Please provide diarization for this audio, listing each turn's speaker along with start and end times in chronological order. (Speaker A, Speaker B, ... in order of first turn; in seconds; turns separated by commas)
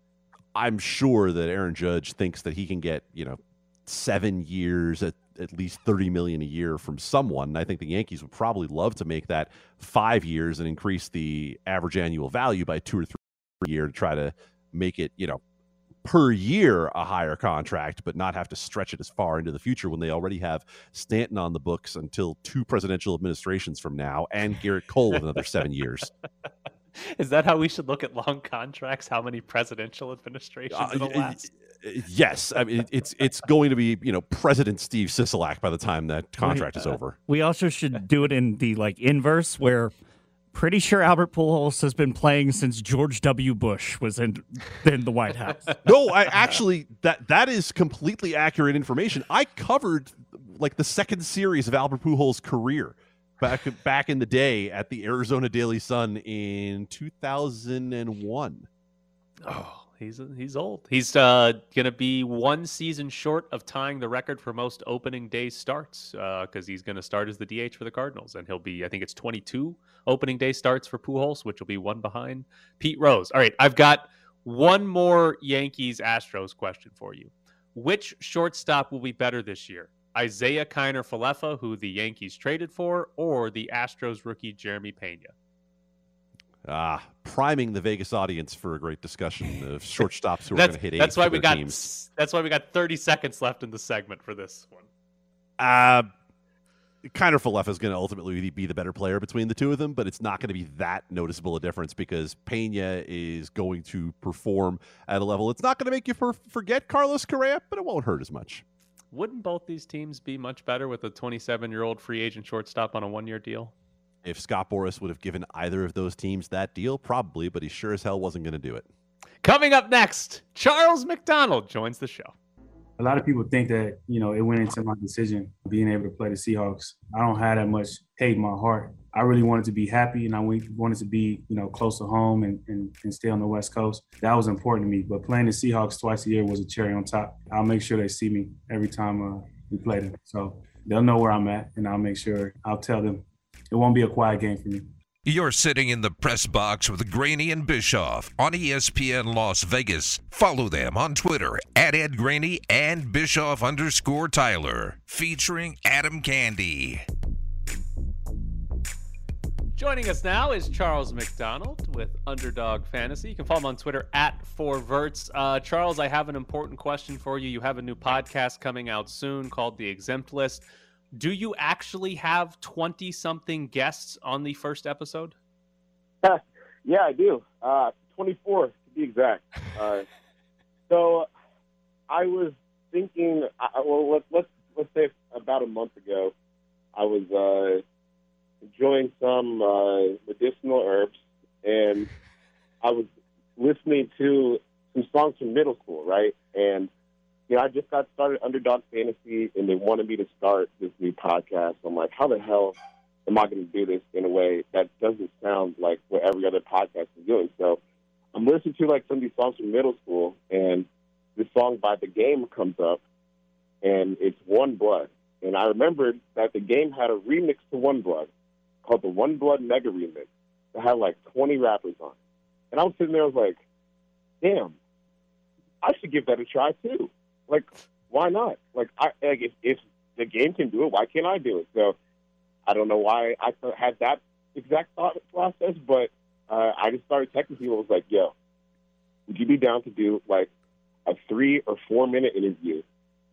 Speaker A: 0.5-15.4, Speaker A: 16.0-26.1, Speaker B: 26.9-31.5, Speaker A: 30.7-37.2, Speaker C: 36.4-36.7, Speaker C: 37.3-39.9, Speaker C: 40.5-45.8, Speaker A: 45.8-58.7, Speaker B: 59.4-85.3, Speaker A: 86.6-91.9, Speaker B: 90.5-94.9, Speaker A: 95.6-96.1, Speaker A: 97.0-108.6, Speaker B: 109.1-113.7, Speaker A: 114.2-118.8, Speaker B: 119.4-122.3, Speaker D: 123.0-144.9, Speaker E: 145.2-157.0, Speaker B: 159.7-170.6, Speaker B: 171.2-175.3, Speaker F: 176.2-180.1, Speaker F: 180.9-181.3, Speaker F: 182.1-186.3, Speaker F: 186.9-187.8, Speaker F: 188.6-192.1, Speaker F: 192.8-196.9, Speaker F: 197.5-207.8, Speaker F: 208.3-213.0, Speaker F: 213.8-218.3, Speaker F: 218.8-222.1, Speaker F: 222.7-223.6, Speaker F: 224.4-224.7, Speaker F: 225.8-231.9, Speaker F: 232.7-238.3, Speaker F: 239.3-240.5, Speaker F: 241.1-242.8